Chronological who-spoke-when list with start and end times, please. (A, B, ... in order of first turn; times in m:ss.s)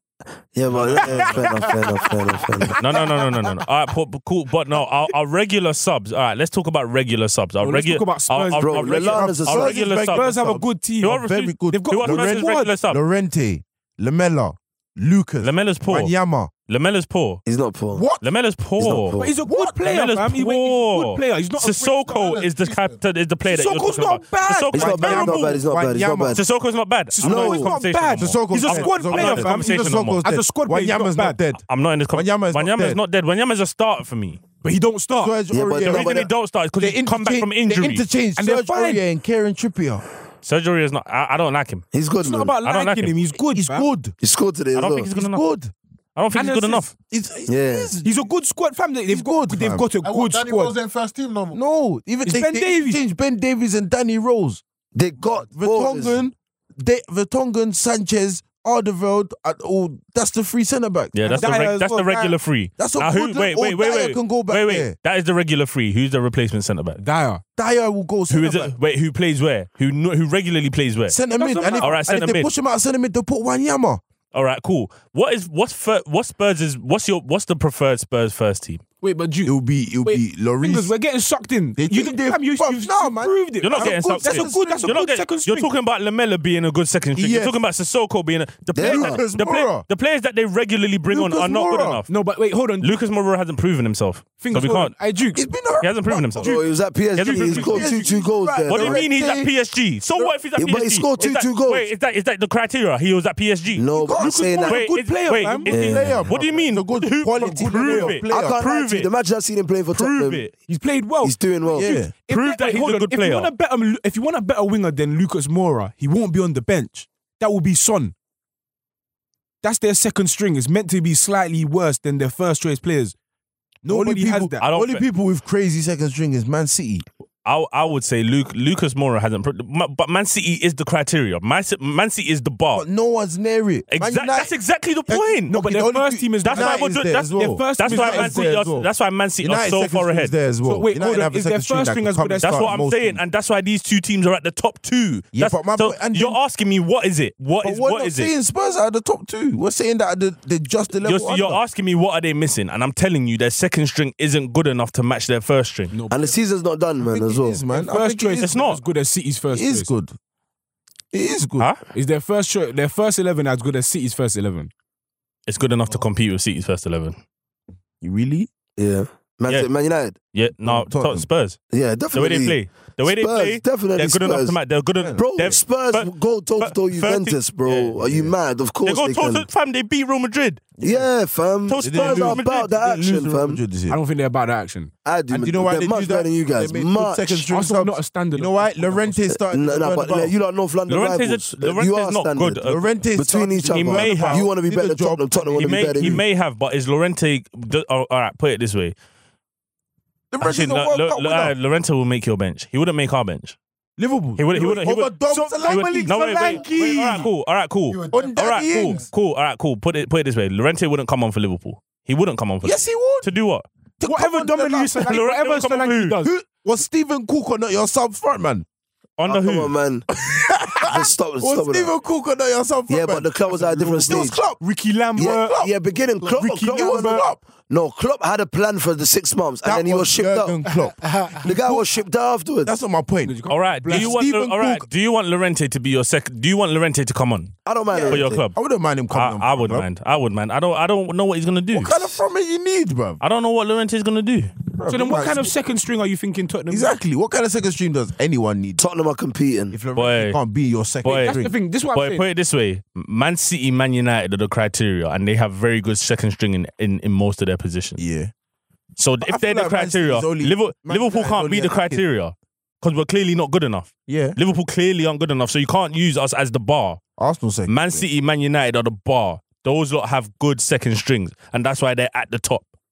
0:00.5-0:02.8 A
0:00.8-0:01.4 B
0:02.8-0:10.3 C
0:07.6-0:09.3 D
0:08.6-0:09.7 A
0:09.1-0:16.5 B
0:10.1-0:12.7 D
0:11.0-0:13.0 C
0:15.4-0:16.1 C
0:16.7-0:17.4 C
0:17.4-0:18.1 A
0:17.9-0:18.2 B
0:18.2-0:19.2 C
0:18.8-0:19.3 A
0:19.1-0:21.8 D
0:19.4-0:19.7 B
0:19.8-0:25.5 C
0:21.8-0:23.0 E
0:23.4-0:25.3 D
0:24.7-0:26.4 A
0:24.8-0:26.4 B
0:26.3-0:30.2 C
0:27.1-0:31.4 D
0:27.2-0:27.7 A
0:28.2-0:31.6 B
0:31.6-0:34.4 C
0:32.1-0:33.0 B
0:34.6-0:35.4 D
0:35.2-0:36.3 B
0:35.5-0:36.3 A
0:35.8-0:38.0 C
0:36.8-0:40.0 B
0:38.4-0:39.0 D
0:40.4-0:41.8 C
0:41.9-0:42.5 A
0:42.2-0:43.9 D
0:42.6-0:43.2 C
0:43.5-0:44.1 B
0:44.2-0:45.1 A
0:44.8-0:45.4 C
0:45.1-0:45.7 B
0:46.2-0:46.9 C
0:46.3-0:46.9 D
0:47.1-0:48.2 B
0:47.5-0:47.9 A
0:48.0-0:50.8 D
0:49.1-0:49.9 B
0:50.0-0:51.6 E
0:51.5-0:54.6 B
0:52.3-0:53.0 D
0:55.0-0:56.2 A
0:55.4-1:01.7 B
1:01.1-1:07.0 C
1:01.3-1:02.4 D
1:02.8-1:05.0 B
1:07.0-1:07.4 D
1:07.6-1:08.7 B
1:08.3-1:11.2 C
1:11.1-1:14.0 B
1:11.4-1:12.0 D
1:11.8-1:12.5 C
1:14.3-1:18.8 C
1:19.0-1:25.7 D
1:19.4-1:20.9 B
1:21.8-1:25.0 B
1:23.6-1:32.1 C
1:27.2-1:27.6 B
1:28.8-1:29.2 A
1:28.8-1:29.8 B
1:31.1-1:32.0 B
1:32.1-1:33.0 D
1:32.8-1:34.9 C
1:34.4-1:35.4 D
1:35.4-1:36.4 B
1:35.8-1:36.6 C
1:36.4-1:39.0 A
1:36.4-1:38.2 D
1:37.2-1:37.8 C
1:37.6-1:39.5 B
1:38.7-1:49.1 C
1:40.2-1:41.9 A
1:43.8-1:44.8 A
1:44.0-1:45.7 D
1:45.7-1:46.1 A
1:45.7-1:48.6 B
1:47.4-1:48.2 D
1:48.2-1:50.4 A
1:49.9-1:50.5 C
1:50.7-1:58.1 D
1:51.2-1:52.0 A
1:51.8-1:52.1 B
1:52.3-1:53.5 C
1:59.6-2:03.1 D
2:03.8-2:04.6 D
2:03.9-2:07.0 B
2:04.6-2:05.0 C
2:07.4-2:12.9 C
2:12.7-2:14.5 B
2:13.9-2:15.6 C
2:15.1-2:18.9 B
2:15.5-2:18.6 D
2:16.5-2:20.3 C
2:19.4-2:23.2 B
2:20.6-2:22.7 D
2:22.4-2:28.3 C
2:25.3-2:26.4 B
2:27.6-2:31.6 B
2:31.0-2:35.9 C
2:35.9-2:36.4 D
2:36.1-2:37.6 A
2:37.0-2:38.6 B
2:37.7-2:39.9 D
2:38.4-2:38.8 C
2:39.5-2:40.2 B
2:41.1-2:41.7 B
2:41.9-2:44.7 D
2:45.5-2:47.2 C
2:48.0-2:48.5 B
2:48.8-2:50.2 A
2:50.3-2:51.6 C
2:50.6-2:51.3 B
2:51.7-2:54.6 A
2:52.1-2:58.0 C
2:55.0-2:55.2 B
2:55.2-2:59.5 A
2:58.0-2:58.3 B
2:58.8-3:00.7 C
3:00.8-3:01.1 B
3:00.8-3:03.6 A
3:01.7-3:02.7 C
3:01.8-3:04.0 B
3:03.9-3:04.9 D
3:05.0-3:07.4 A
3:05.3-3:10.4 B
3:07.5-3:09.4 D
3:09.5-3:16.2 A
3:10.9-3:12.8 C
3:12.6-3:16.2 B
3:13.7-3:14.5 C
3:15.6-3:19.0 C
3:20.3-3:21.5 B
3:20.4-3:23.6 C
3:24.0-3:26.4 B
3:24.4-3:25.1 C
3:25.3-3:27.3 D
3:25.6-3:33.6 C
3:27.9-3:29.1 E
3:28.1-3:29.0 B
3:32.6-3:33.3 B
3:34.0-3:35.1 B
3:34.0-3:36.3 D
3:34.9-3:36.1 C
3:36.2-3:38.6 B
3:39.2-3:39.7 C
3:39.3-3:40.1 A
3:40.2-3:44.6 B
3:40.8-3:41.9 A
3:42.9-3:44.4 A
3:43.5-3:45.7 D
3:45.2-3:45.7 B
3:45.2-3:50.6 A
3:46.2-3:47.2 D
3:46.4-3:47.4 B
3:49.6-3:51.9 B
3:50.7-3:51.4 E
3:51.4-3:52.8 A
3:52.6-3:54.9 B
3:53.2-3:54.2 D
3:53.5-3:57.5 C
3:57.7-3:58.4 A
3:58.1-3:58.6 C
3:58.4-3:59.9 B
3:59.1-4:02.2 C
4:01.7-4:03.2 B
4:03.2-4:04.5 C
4:04.7-4:05.5 B
4:04.9-4:07.0 D
4:06.7-4:08.8 B
4:08.8-4:09.8 A
4:09.7-4:11.6 B
4:10.0-4:10.4 C
4:11.0-4:18.0 C
4:11.1-4:12.3 D
4:18.0-4:18.3 B
4:19.0-4:27.0 C
4:19.2-4:22.0 B
4:24.1-4:24.4 B
4:27.2-4:28.0 B
4:27.7-4:32.7 C